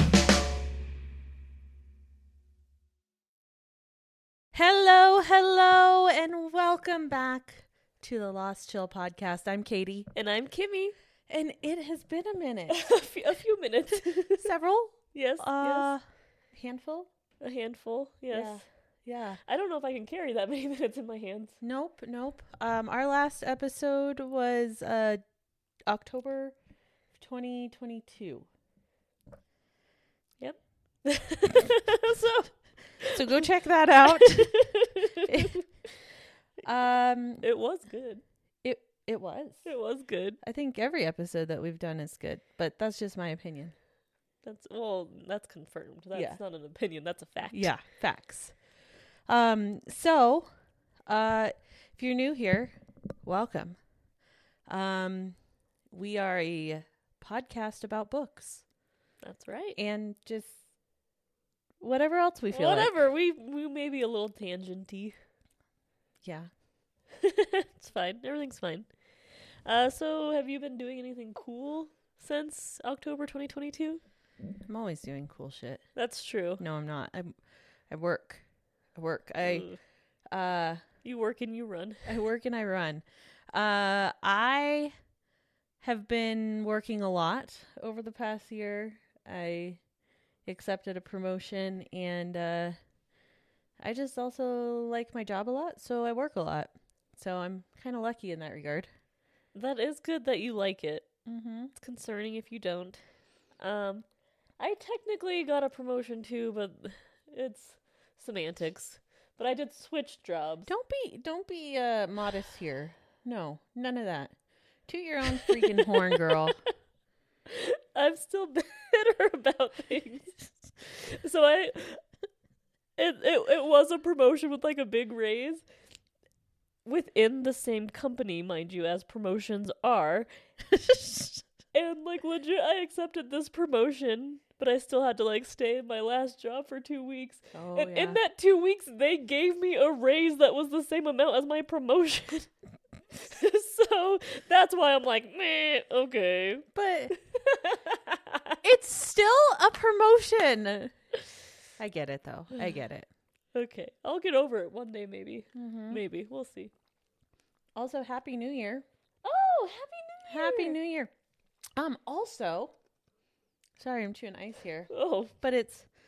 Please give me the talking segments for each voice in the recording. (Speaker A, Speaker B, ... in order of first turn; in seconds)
Speaker A: 4.5-10.1, 11.3-12.9, 13.9-17.1, 18.3-19.4, 21.6-25.2, 25.9-26.6, 27.1-28.5, 33.1-34.7, 35.2-35.6, 36.6-37.5, 38.6-39.7, 40.4-43.7, 46.1-46.4, 47.5-48.5, 49.3-50.5, 51.1-53.8, 54.7-55.4, 55.9-58.6, 59.8-60.6, 61.8-62.9, 66.2-66.5, 74.7-75.8, 76.6-77.4, 77.9-78.4, 79.0-79.7, 80.3-80.8, 82.0-84.9, 85.8-89.8, 90.5-92.8, 93.8-98.9, 101.2-101.7, 110.7-114.3, 114.9-116.6, 130.7-131.4, 137.5-138.2, 146.7-147.1, 148.6-150.9, 151.8-153.1, 155.6-156.0, 157.8-158.8, 160.3-161.1, 161.8-162.7, 163.8-164.9, 165.4-165.9
Speaker B: 10.1-11.0, 12.7-14.5, 15.1-15.9, 17.4-18.6, 19.4-21.6, 30.4-33.4, 34.1-35.7, 37.4-38.2, 39.6-40.4, 44.4-47.7, 59.2-59.8, 62.5-65.2, 67.2-68.9, 69.7-74.0, 76.0-76.6, 79.4-79.8, 81.0-82.1, 99.5-101.1, 101.8-103.0, 103.6-104.1, 104.6-110.7, 115.3-116.7, 117.5-122.0, 123.0-125.6, 126.8-130.3, 131.7-142.5, 143.2-148.6, 153.5-156.7, 159.2-160.8, 164.9-165.3